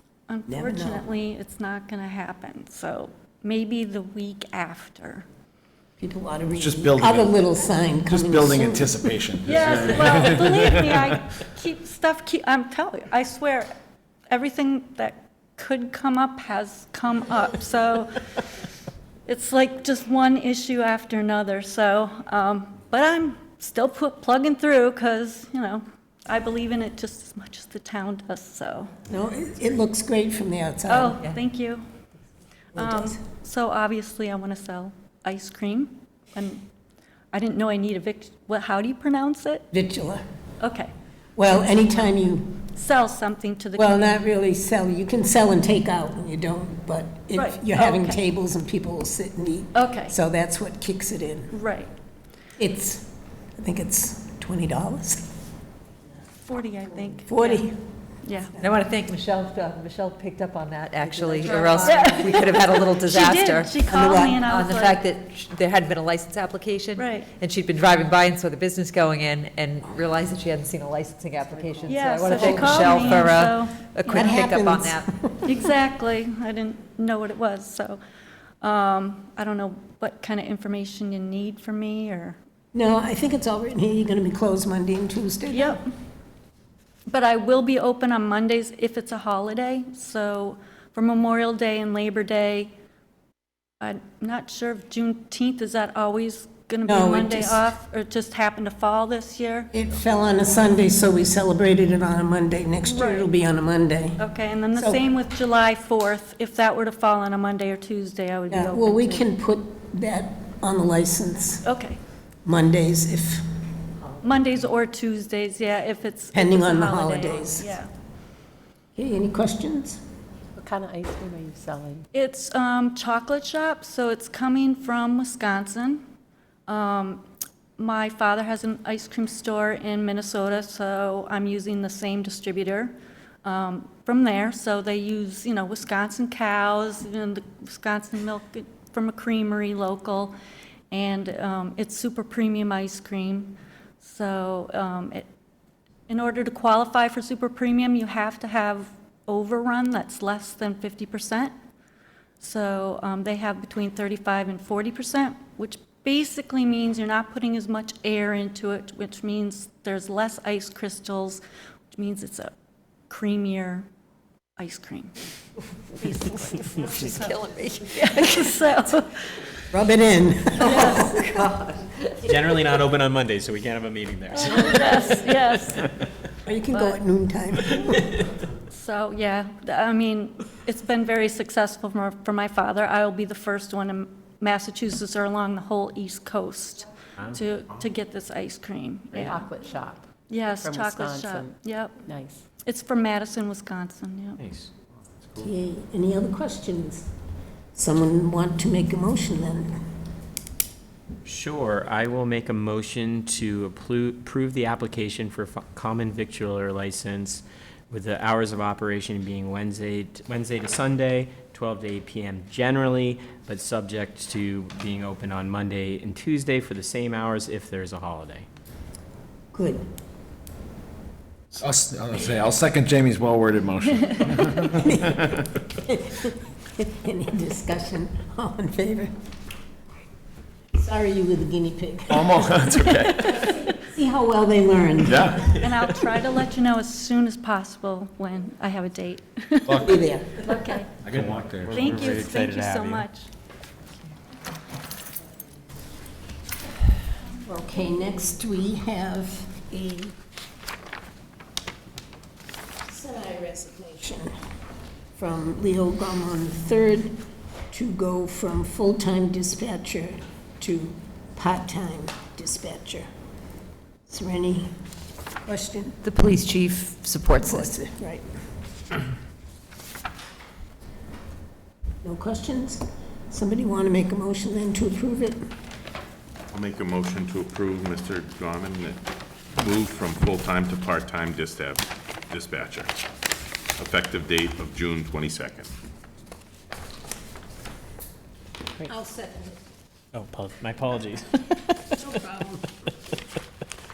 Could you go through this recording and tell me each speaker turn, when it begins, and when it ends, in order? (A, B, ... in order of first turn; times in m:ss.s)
0:00.3-0:05.3 A
0:00.5-0:01.0 B
0:06.0-0:10.2 B
0:06.5-0:07.4 C
0:08.1-0:11.2 C
0:09.4-0:13.7 A
0:14.3-0:18.2 A
0:19.3-0:28.9 A
0:29.1-0:31.2 B
0:30.9-0:31.8 A
0:32.8-0:33.2 B
0:32.8-0:36.7 A
0:37.3-0:39.7 A
0:39.7-0:40.2 B
0:40.6-0:40.9 A
0:41.4-0:42.6 B
0:42.8-0:44.2 A
0:43.8-0:51.5 B
0:47.3-0:48.2 A
0:49.8-0:50.2 A
0:51.5-0:51.9 A
0:52.6-0:53.0 B
0:53.6-0:55.2 B
0:56.4-0:57.7 A
0:57.3-0:57.8 B
0:58.2-0:58.6 A
0:58.6-1:15.1 D
1:01.0-1:02.0 B
1:01.8-1:05.0 A
1:03.9-1:04.4 B
1:07.0-1:07.3 A
1:11.6-1:12.6 E
1:11.9-1:14.4 A
1:12.4-1:12.8 B
1:14.1-1:15.4 B
1:15.4-1:18.0 A
1:18.6-1:22.4 A
1:22.7-1:25.8 B
1:25.5-1:25.9 A
1:27.1-1:32.7 A
1:33.8-1:39.7 A
1:36.8-1:37.6 B
1:39.7-1:44.2 B
1:42.9-1:43.3 A
1:44.2-1:49.3 A
1:44.8-1:45.0 B
1:48.5-1:51.6 B
1:51.6-1:52.0 A
1:52.4-1:53.4 B
1:54.2-1:57.9 A
1:56.3-1:57.8 B
1:59.0-2:00.0 B
2:00.6-2:02.0 E
2:02.1-2:06.0 A
2:06.7-2:07.3 A
2:07.8-2:20.4 A
2:20.9-2:25.3 A
2:26.1-2:31.5 A
2:32.4-2:41.4 A
2:41.9-2:42.5 A
2:43.1-2:43.9 A
2:44.6-2:45.1 A
2:46.1-2:46.6 B
2:46.5-2:49.3 A
2:46.9-2:48.4 D
2:49.7-2:51.6 B
2:50.6-2:51.2 A
2:52.2-2:55.7 F
2:54.3-2:55.9 A
2:56.5-2:58.2 B
2:56.7-2:57.0 A
2:58.7-3:09.8 A
3:09.1-3:10.1 E
3:10.3-3:12.0 A
3:10.6-3:12.4 E
3:12.6-3:14.4 A
3:14.4-3:14.7 F
3:15.4-3:17.1 B
3:17.8-3:19.8 B
3:21.2-3:38.5 F
3:39.5-3:39.8 B
3:41.6-3:45.3 C
3:44.8-3:49.1 B
3:50.7-3:52.6 B
3:52.1-3:53.4 C
3:52.6-3:53.6 A
3:53.4-3:55.4 B
3:55.0-3:55.6 C
3:55.6-4:00.9 A
3:59.7-4:00.0 C
3:59.8-4:00.6 B
4:01.0-4:01.8 C
4:01.0-4:03.1 F
4:01.7-4:03.3 A
4:07.4-4:10.1 B
4:12.9-4:14.3 B
4:15.1-4:17.2 B
4:17.7-4:23.1 B
4:24.1-4:24.7 B
4:25.4-4:26.0 B
4:26.0-4:27.8 D
4:27.4-4:28.3 B
4:32.0-4:35.4 B
4:36.5-4:39.0 G
4:39.5-4:43.0 G
4:43.8-4:45.7 G
4:48.9-4:49.6 B
4:50.1-4:52.5 F
4:52.2-4:52.5 B